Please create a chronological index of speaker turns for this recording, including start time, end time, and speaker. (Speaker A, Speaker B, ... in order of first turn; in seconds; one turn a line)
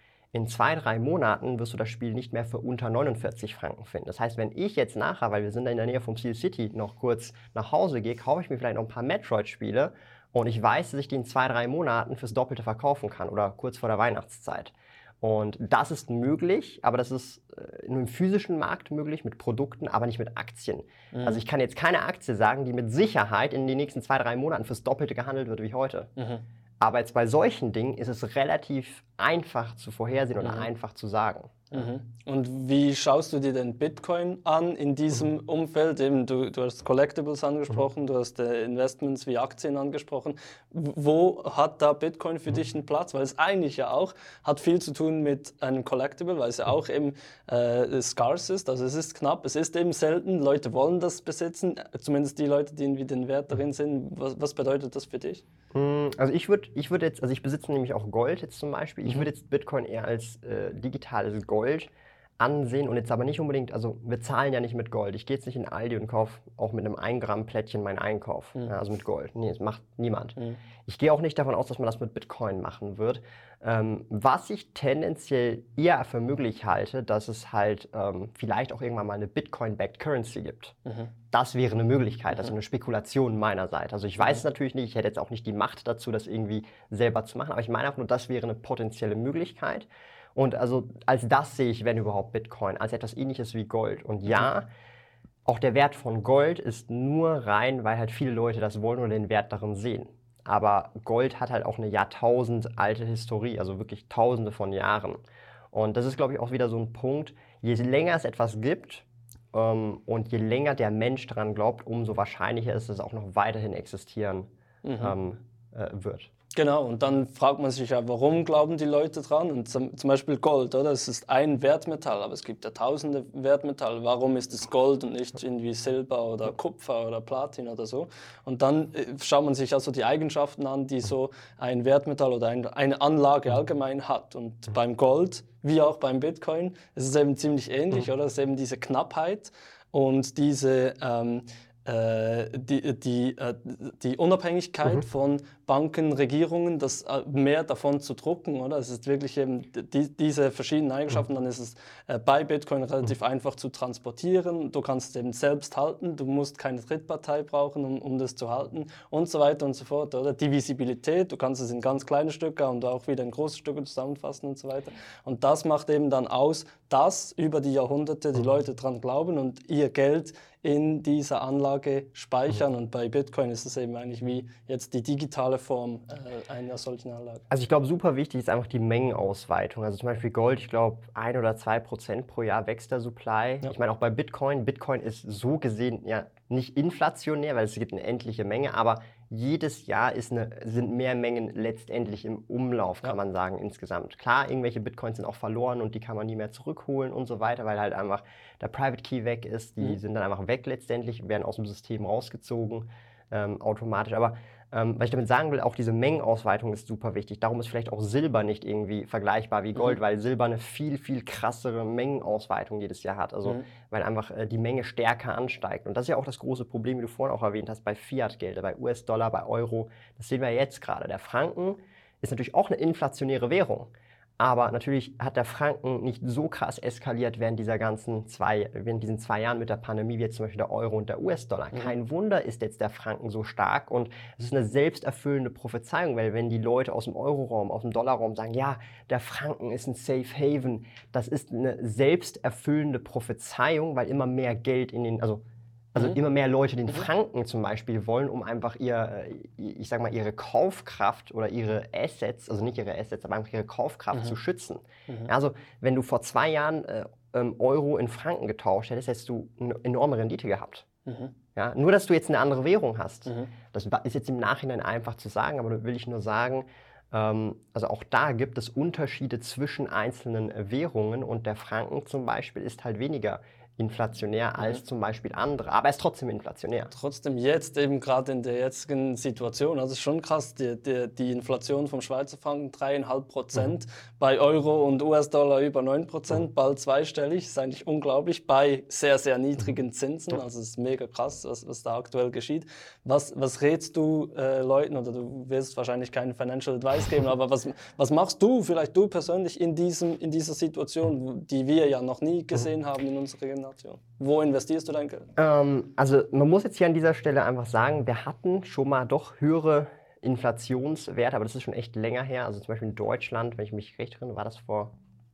Speaker A: 0.3-26.1
Speaker B: 21.1-21.4
Speaker B: 26.2-26.4
Speaker A: 26.8-31.9
Speaker B: 30.4-30.7
Speaker B: 31.7-55.4
Speaker A: 55.7-80.8
Speaker A: 81.3-94.7
Speaker A: 95.5-105.2
Speaker A: 105.7-114.5
Speaker B: 114.8-115.2
Speaker A: 115.0-116.3
Speaker B: 116.5-177.4
Speaker A: 177.5-245.4
Speaker A: 245.9-260.9
Speaker B: 261.1-261.3
Speaker A: 261.6-276.9
Speaker B: 276.9-305.3
Speaker A: 305.4-314.9